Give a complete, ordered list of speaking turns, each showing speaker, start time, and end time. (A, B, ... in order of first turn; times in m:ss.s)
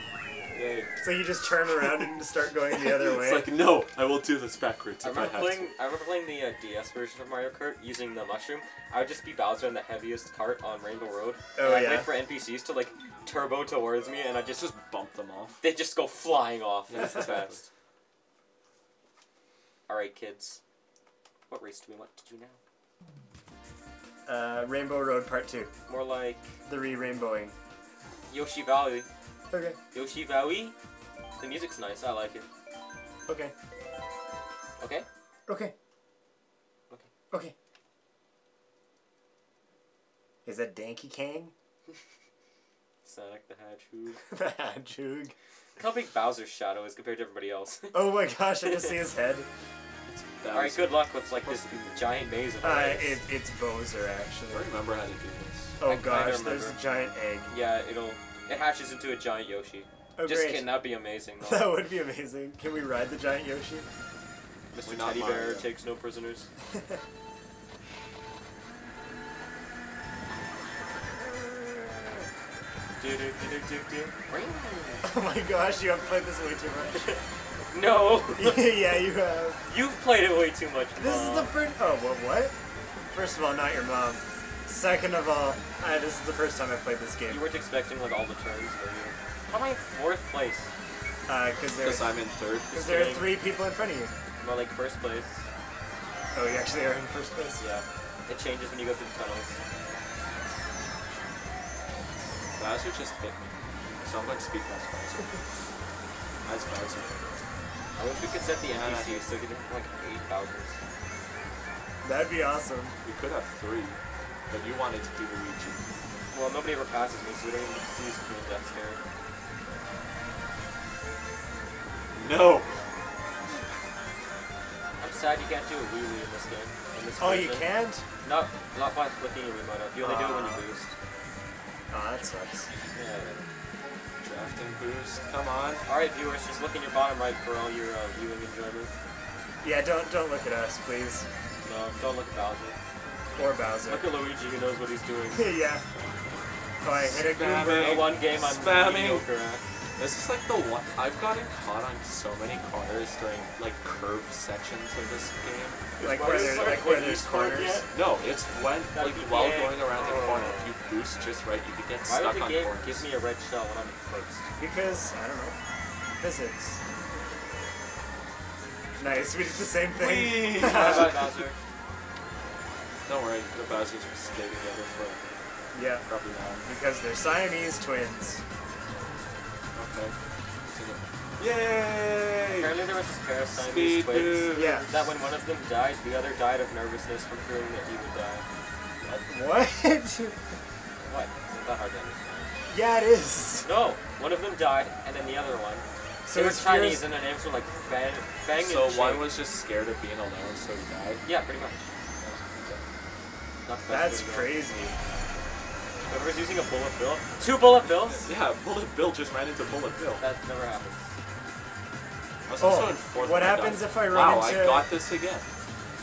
0:00.5-0:05.7 A
0:01.0-0:03.5 B
0:05.0-0:14.7 C
0:11.6-0:12.1 B
0:14.5-0:15.6 A
0:15.6-0:17.7 C
0:16.9-0:17.6 A
0:19.9-0:20.6 C
0:21.5-0:22.6 C
0:24.2-0:25.7 B
0:25.9-0:26.5 C
0:26.6-0:27.5 B
0:28.3-0:29.1 C
0:29.5-0:29.8 B
0:29.9-0:30.7 C
0:31.4-0:32.5 C
0:33.3-0:33.5 B
0:34.8-0:35.0 C
0:35.5-0:35.7 B
0:40.4-0:41.5 B
0:43.0-0:44.2 C
0:44.3-0:45.3 B
0:45.8-0:48.0 C
0:47.9-0:49.5 B
0:50.1-0:52.0 A
0:50.5-0:53.2 C
0:52.6-0:54.7 B
0:54.5-0:55.8 A
0:55.8-0:57.5 B
0:55.8-0:56.8 C
0:57.5-1:01.7 C
1:00.2-1:00.8 B
1:01.4-1:03.9 B
1:04.7-1:06.5 C
1:04.8-1:05.7 A
1:11.6-1:12.0 B
1:13.0-1:15.0 C
1:15.0-1:17.2 B
1:17.7-1:18.7 C
1:18.4-1:19.6 B
1:19.7-1:21.6 C
1:21.0-1:22.5 B
1:23.1-1:27.4 B
1:27.3-1:30.7 C
1:31.3-1:32.1 B
1:31.8-1:33.1 A
1:32.7-1:34.1 B
1:32.8-1:33.3 C
1:34.4-1:35.4 C
1:36.3-1:37.6 B
1:37.6-1:39.6 C
1:42.6-1:45.4 A
1:46.4-1:47.4 A
1:48.0-1:50.8 C
1:48.7-1:49.2 A
1:52.0-1:53.0 B
1:53.0-1:54.0 A
1:54.5-1:55.9 A
1:56.3-1:59.0 C
2:02.1-2:02.8 A
2:05.0-2:10.9 C
2:07.2-2:08.0 B
2:10.0-2:10.6 B
2:11.9-2:12.7 B
2:12.9-2:13.5 C
2:14.2-2:15.8 A
2:15.8-2:18.9 C
2:19.6-2:21.3 B
2:21.6-2:22.8 C
2:23.4-2:24.1 B
2:23.9-2:25.5 C
2:25.3-2:25.8 B
2:26.8-2:28.0 B
2:26.9-2:29.2 A
2:27.8-2:29.6 C
2:30.0-2:35.9 A
2:36.0-2:37.8 B
2:36.0-2:37.9 C
2:37.9-2:43.0 A
2:38.9-2:40.7 C
2:42.0-2:44.5 C
2:44.6-2:45.6 B
2:46.2-2:46.8 B
2:49.0-2:51.2 B
2:49.9-2:51.4 A
2:50.5-2:51.6 C
2:53.0-2:55.4 A
2:55.7-2:56.0 B
2:56.0-2:56.7 A
2:56.6-2:58.4 B
2:59.7-3:00.1 A
3:00.7-3:02.8 A
3:02.5-3:08.4 C
3:03.5-3:05.1 A
3:04.5-3:04.9 B
3:09.0-3:09.3 A
3:09.2-3:10.4 B
3:11.0-3:12.5 C
3:12.7-3:13.7 B
3:13.6-3:19.3 C
3:16.2-3:17.1 B
3:18.6-3:21.2 A
3:21.2-3:21.9 C
3:22.2-3:22.8 A
3:23.6-3:24.6 C
3:23.9-3:25.0 B
3:26.1-3:28.3 C
3:28.3-3:30.2 A
3:30.2-3:31.1 C
3:32.5-3:35.5 A
3:32.6-3:34.9 B